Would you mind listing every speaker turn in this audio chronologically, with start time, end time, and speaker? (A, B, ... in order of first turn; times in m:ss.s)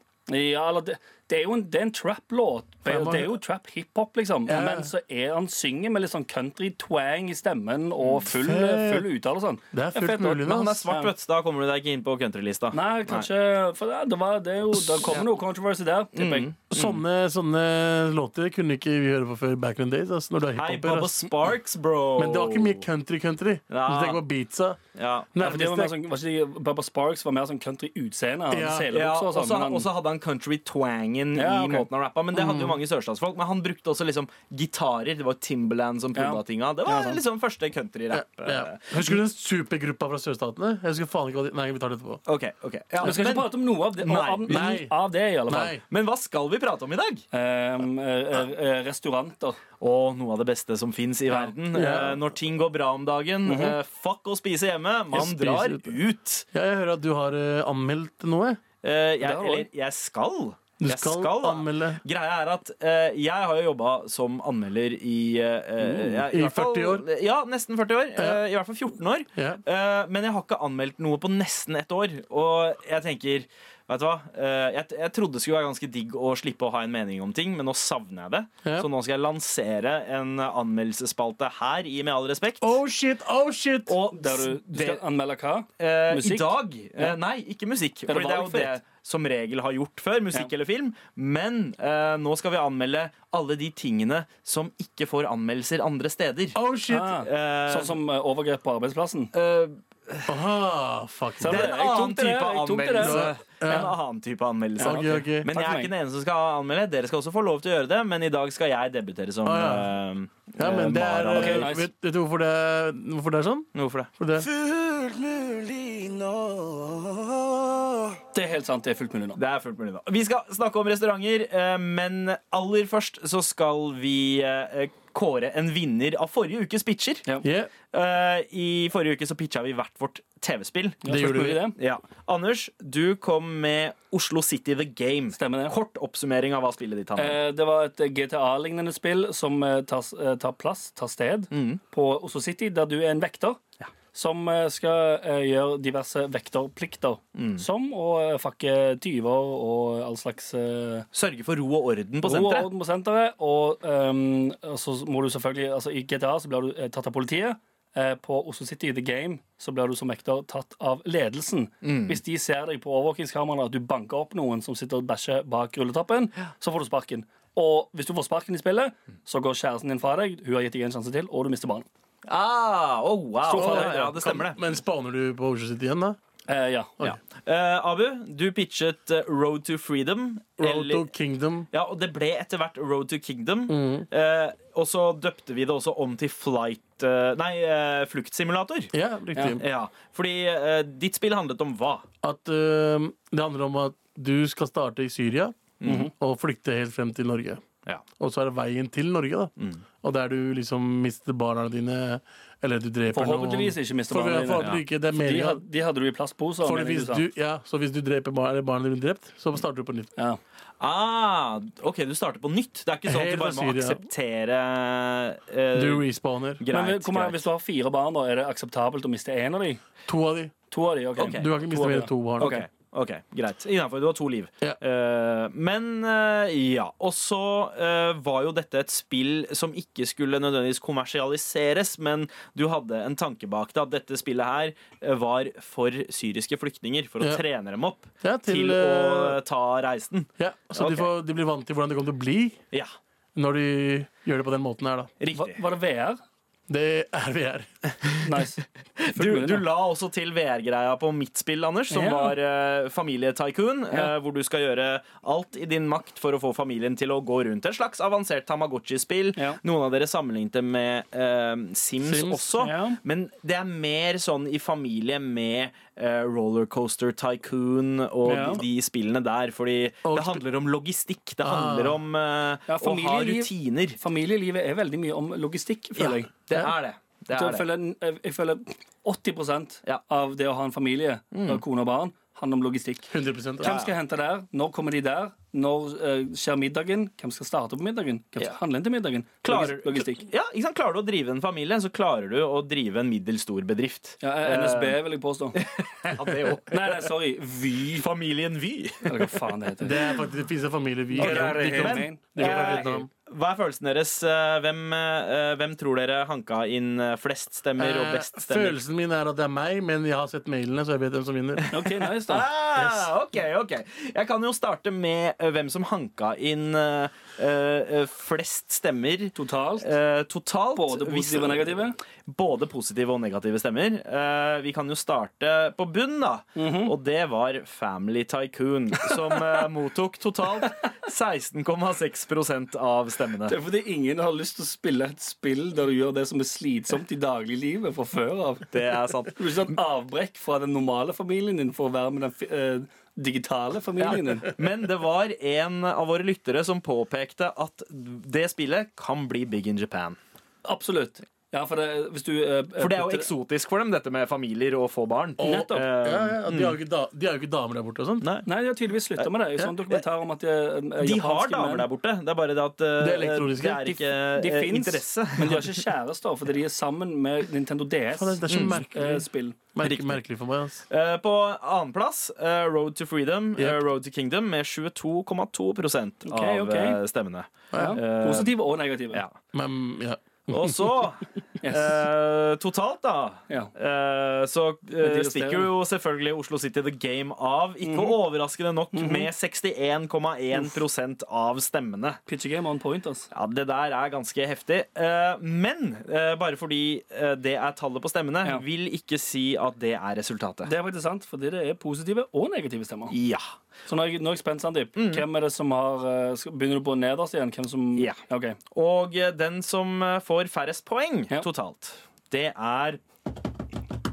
0:00.3-0:11.1 A
0:02.9-0:03.4 B
0:04.5-0:04.9 B
0:08.3-0:09.1 B
0:09.7-0:10.9 B
0:10.4-0:13.3 C
0:12.7-0:16.5 A
0:16.1-0:17.0 C
0:16.7-0:21.3 B
0:20.6-0:22.8 C
0:22.2-0:24.8 B
0:23.7-0:24.2 C
0:25.0-0:25.3 C
0:25.3-0:25.9 B
0:25.4-0:29.9 A
0:28.5-0:28.9 B
0:28.9-0:39.2 C
0:31.4-0:31.9 A
0:32.4-0:32.7 B
0:36.2-0:37.2 A
0:38.1-0:42.2 B
0:42.3-0:44.7 C
0:43.0-0:45.8 A
0:44.5-0:44.9 B
0:45.5-0:45.8 B
0:45.9-0:47.2 C
0:47.3-0:49.6 A
0:49.8-0:56.5 C
0:51.7-0:52.2 B
0:53.4-0:53.8 A
0:55.1-0:56.0 B
0:56.5-0:58.6 B
0:58.8-1:22.8 C
0:59.2-0:59.7 A
1:00.8-1:02.0 B
1:06.3-1:07.0 B
1:09.4-1:09.6 B
1:22.6-1:24.0 B
1:23.9-1:25.0 C
1:24.1-1:27.2 A
1:25.8-1:38.0 C
1:28.1-1:28.8 A
1:36.6-1:37.2 B
1:36.9-1:39.3 A
1:39.3-1:40.4 C
1:40.3-1:41.7 B
1:41.4-1:43.3 A
1:41.4-1:51.8 C
1:43.0-1:43.9 B
1:44.8-1:45.9 A
1:44.8-1:45.5 B
1:49.4-1:49.9 B
1:50.6-1:54.5 B
1:51.3-1:51.8 A
1:53.8-1:55.0 C
1:55.8-1:56.4 C
1:58.3-1:59.4 A
1:59.4-2:07.2 C
2:07.4-2:07.7 B
2:07.9-2:11.0 C
2:11.0-2:11.8 A
2:11.1-2:11.6 B
2:11.8-2:17.4 C
2:15.4-2:15.8 A
2:17.2-2:23.6 A
2:21.5-2:21.8 C
2:24.1-2:31.1 A
2:27.4-2:27.6 C
2:31.1-2:32.7 C
2:32.2-2:51.9 A
2:41.8-2:42.2 C
2:52.3-2:54.6 C
2:53.4-2:54.1 A
2:53.6-2:56.2 B
2:56.5-2:57.0 A
2:57.0-3:01.1 C
3:00.6-3:01.7 B
3:01.7-3:08.9 C
3:03.7-3:04.1 B
3:08.9-3:09.6 B
3:09.4-3:09.6 A
3:09.6-3:12.0 C
3:12.2-3:17.6 B
3:15.8-3:16.1 C
3:15.8-3:16.1 A
3:18.2-3:25.6 B
3:23.1-3:27.3 A
3:24.6-3:24.8 C
3:26.6-3:30.1 B
3:30.8-3:36.0 C
3:33.0-3:34.0 B
3:35.7-3:36.6 B
3:36.6-3:37.4 C
3:36.7-3:39.8 A
3:40.1-3:40.5 B
3:40.7-3:42.6 A
3:41.2-3:41.5 C
3:41.3-3:42.5 B
3:42.4-4:01.1 C
3:58.2-3:59.4 B
4:00.4-4:02.6 B
4:03.4-4:05.1 B
4:05.2-4:05.6 C
4:05.3-4:06.2 A
4:06.7-4:08.0 B
4:08.2-4:09.6 A
4:09.0-4:34.0 C
4:11.9-4:12.4 A
4:19.4-4:19.6 A
4:22.0-4:22.5 B
4:22.6-4:23.0 A
4:28.2-4:28.6 A
4:30.0-4:30.4 B
4:31.4-4:32.0 B
4:32.7-4:36.3 A
4:36.0-4:37.6 C
4:37.3-4:50.3 A
4:41.3-4:41.6 C
4:43.1-4:43.7 B
4:43.6-4:43.9 C
4:49.4-4:55.0 C
4:54.2-4:55.6 A
4:55.6-4:57.0 C
4:56.7-4:58.1 A
4:58.0-4:59.4 C
4:59.0-5:00.0 A
4:59.8-5:03.1 B
5:01.1-5:03.0 A
5:01.2-5:08.8 C
5:07.8-5:11.7 B
5:11.6-5:33.6 C
5:11.7-5:12.5 A
5:12.8-5:13.1 B
5:19.3-5:19.9 A
5:20.8-5:22.0 A
5:26.6-5:26.9 A
5:33.5-5:38.7 A
5:38.7-5:39.8 C
5:39.4-5:44.5 A
5:44.0-5:50.2 C
5:50.6-5:53.3 A
5:52.8-5:56.8 C
5:55.4-5:58.3 B
5:55.4-5:55.9 A
5:58.2-5:58.5 C
5:58.4-6:01.9 A
6:01.0-6:05.8 C
6:03.0-6:04.0 B
6:04.2-6:09.6 A
6:08.2-6:10.8 B
6:08.5-6:08.9 C
6:09.8-6:10.2 C
6:10.9-6:18.5 C
6:16.2-6:17.0 A
6:17.7-6:18.0 B
6:17.8-6:19.2 A
6:19.5-6:21.0 B
6:20.5-6:32.2 C
6:21.6-6:22.0 A
6:25.0-6:25.7 A
6:27.8-6:28.2 A
6:28.9-6:29.3 A
6:32.3-6:33.3 A
6:33.3-6:40.7 C
6:40.6-6:43.2 A
6:43.1-6:43.5 C
6:43.9-6:48.6 A
6:45.0-6:45.2 C
6:48.7-6:53.0 C